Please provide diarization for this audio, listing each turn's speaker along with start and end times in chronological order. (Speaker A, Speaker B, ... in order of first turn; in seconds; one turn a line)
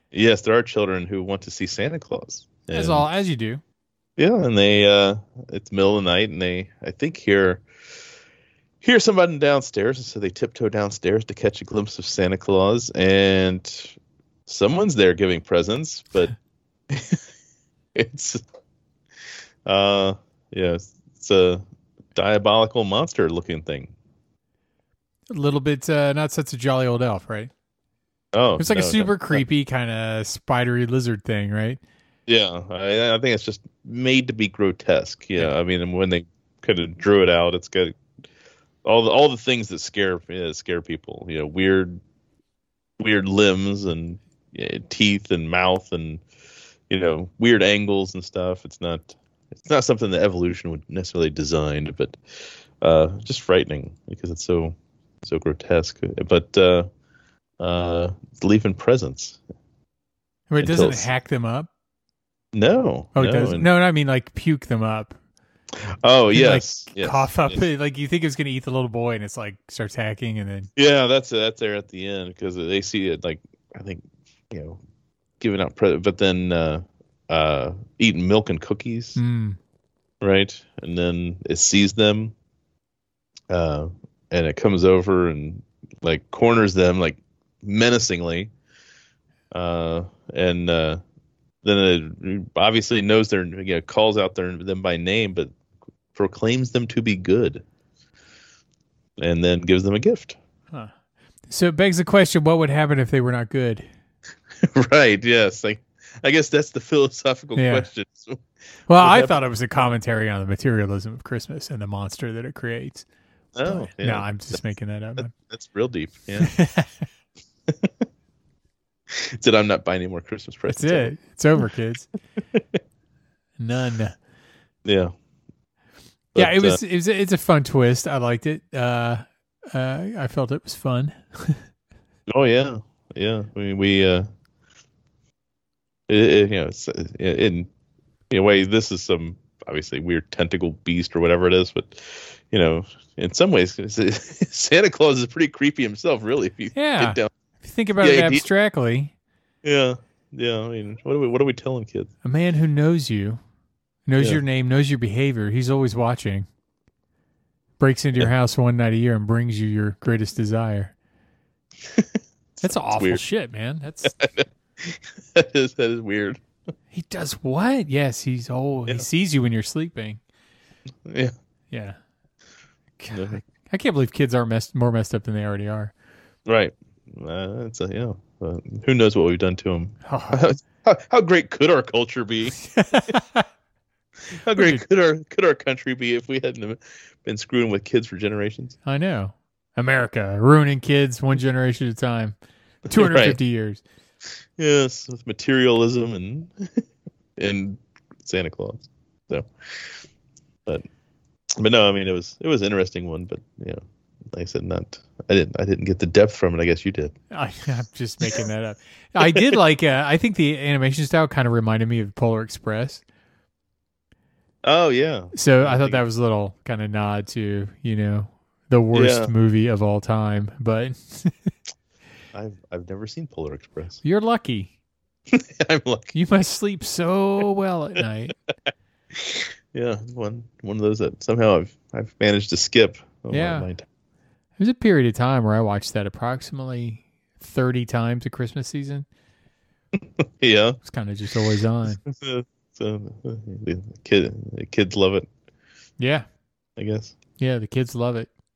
Speaker A: 0.1-3.0
Speaker B: 2.7-3.6
Speaker A: 4.2-7.6
Speaker A: 8.8-16.3
Speaker A: 16.9-17.2
Speaker A: 17.9-18.4
Speaker A: 19.6-21.6
Speaker A: 22.1-23.9
Speaker B: 25.3-27.5
Speaker A: 28.3-29.4
Speaker B: 28.6-31.8
Speaker A: 32.3-38.0
Speaker A: 38.8-42.0
Speaker A: 43.0-46.2
Speaker A: 46.9-56.9
Speaker A: 57.6-59.4
Speaker B: 60.5-61.7
Speaker A: 60.6-61.1
Speaker A: 62.5-63.7
Speaker B: 63.1-65.2
Speaker A: 66.0-67.6
Speaker B: 66.3-70.7
Speaker A: 70.8-74.8
Speaker A: 75.4-79.2
Speaker B: 79.2-79.6
Speaker A: 80.2-82.3
Speaker A: 83.5-88.5
Speaker A: 89.5-91.0
Speaker A: 91.6-95.5
Speaker A: 96.1-97.6
Speaker A: 99.2-100.4
Speaker B: 101.5-103.8
Speaker A: 104.5-108.4
Speaker B: 107.5-107.9
Speaker B: 108.9-113.0
Speaker A: 109.0-109.4
Speaker A: 113.5-114.6
Speaker B: 113.6-115.3
Speaker A: 115.2-116.5
Speaker B: 116.4-116.9
Speaker A: 117.7-118.0
Speaker A: 119.1-121.1
Speaker B: 120.7-122.1
Speaker A: 122.5-122.8
Speaker B: 123.6-124.1
Speaker A: 124.8-125.1
Speaker A: 126.3-126.8
Speaker B: 126.3-131.6
Speaker A: 132.3-134.3
Speaker A: 136.1-137.7
Speaker A: 138.3-147.3
Speaker B: 146.7-149.1
Speaker A: 148.0-148.4
Speaker A: 149.6-152.1
Speaker B: 152.2-153.4
Speaker B: 154.1-156.4
Speaker B: 157.8-160.9
Speaker A: 161.8-163.2
Speaker B: 162.6-164.2
Speaker A: 164.1-166.4
Speaker B: 166.9-170.2
Speaker A: 171.0-171.3
Speaker B: 171.7-172.0
Speaker B: 173.0-175.9
Speaker A: 173.1-173.4
Speaker A: 176.4-182.6
Speaker B: 180.0-180.4
Speaker B: 182.6-183.4
Speaker A: 184.3-188.8
Speaker B: 184.6-184.8
Speaker B: 188.8-192.3
Speaker B: 192.9-193.8
Speaker A: 192.9-193.4
Speaker A: 194.6-196.8
Speaker A: 197.4-200.0
Speaker A: 201.6-203.8
Speaker A: 204.3-207.1
Speaker B: 207.3-213.0
Speaker A: 209.2-209.6
Speaker A: 214.6-216.0
Speaker B: 215.3-221.3
Speaker A: 218.9-219.3
Speaker A: 222.3-224.0
Speaker B: 224.0-224.7
Speaker A: 225.3-226.1
Speaker B: 226.1-228.3
Speaker A: 229.1-233.8
Speaker B: 233.3-233.7
Speaker B: 234.6-239.1
Speaker A: 239.9-240.8
Speaker B: 240.8-242.0
Speaker A: 242.0-245.3
Speaker B: 246.0-246.2
Speaker A: 246.8-247.1
Speaker B: 247.4-248.3